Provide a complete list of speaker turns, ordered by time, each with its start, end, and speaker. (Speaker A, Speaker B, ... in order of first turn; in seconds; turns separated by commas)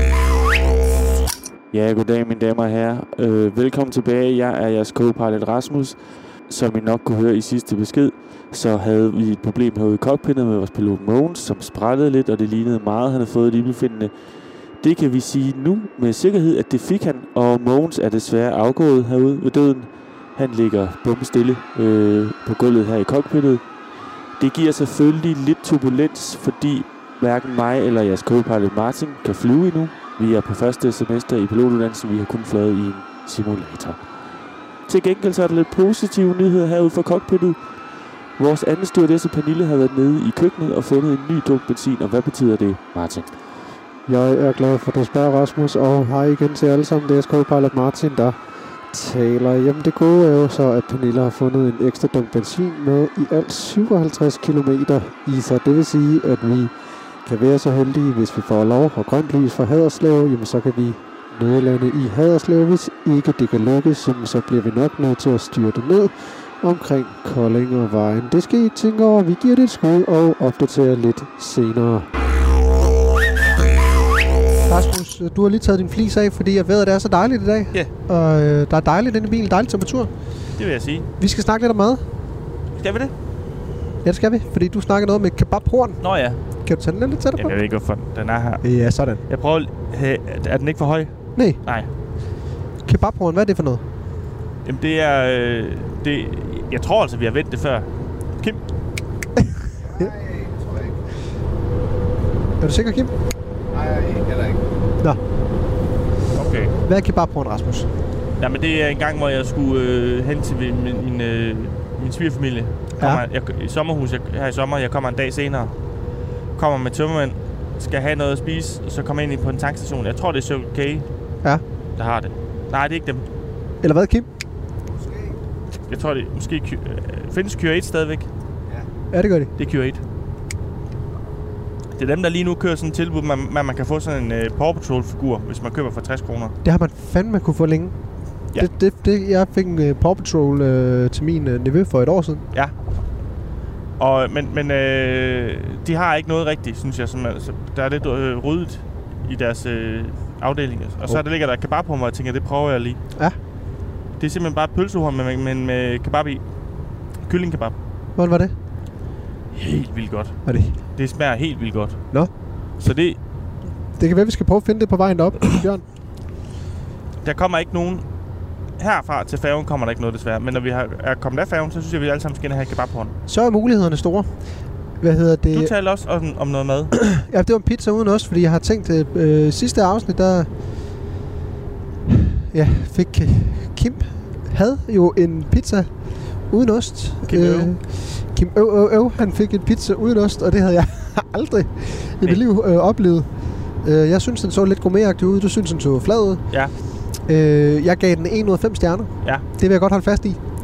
Speaker A: 1.7-14.1, Speaker A: 14.8-23.6, Speaker A: 24.4-34.0, Speaker A: 34.9-37.6, Speaker A: 38.4-43.3, Speaker B: 44.1-48.4, Speaker B: 48.9-72.1, Speaker C: 74.7-80.1, Speaker D: 80.6-81.1, Speaker C: 81.2-82.0, Speaker D: 82.8-83.1, Speaker C: 84.0-86.0, Speaker D: 86.0-86.4, Speaker C: 86.6-87.5, Speaker D: 87.3-88.6, Speaker C: 88.6-89.2, Speaker D: 89.2-91.9, Speaker C: 92.8-93.8, Speaker D: 94.6-97.9, Speaker E: 99.8-101.0, Speaker C: 102.6-103.1, Speaker E: 103.7-104.6, Speaker D: 106.3-106.7, Speaker C: 106.8-107.9, Speaker D: 108.4-115.7, Speaker D: 116.5-121.0, Speaker D: 122.0-123.2, Speaker C: 123.8-124.3, Speaker E: 124.9-125.3, Speaker D: 125.9-128.3, Speaker C: 129.1-129.5, Speaker D: 129.6-130.0, Speaker D: 131.9-136.5, Speaker C: 136.6-137.9, Speaker C: 138.6-142.4, Speaker D: 144.0-153.0, Speaker D: 154.2-156.4, Speaker D: 157.2-157.7, Speaker C: 158.2-158.5, Speaker D: 159.5-162.0, Speaker C: 160.4-160.8, Speaker D: 162.8-163.2, Speaker C: 164.0-165.8, Speaker D: 167.2-168.0, Speaker D: 168.8-173.1, Speaker C: 173.3-174.3, Speaker C: 175.0-175.7, Speaker D: 175.5-176.9, Speaker C: 177.0-180.5, Speaker C: 182.1-193.3, Speaker D: 187.3-187.7, Speaker C: 193.8-196.4, Speaker C: 197.2-200.4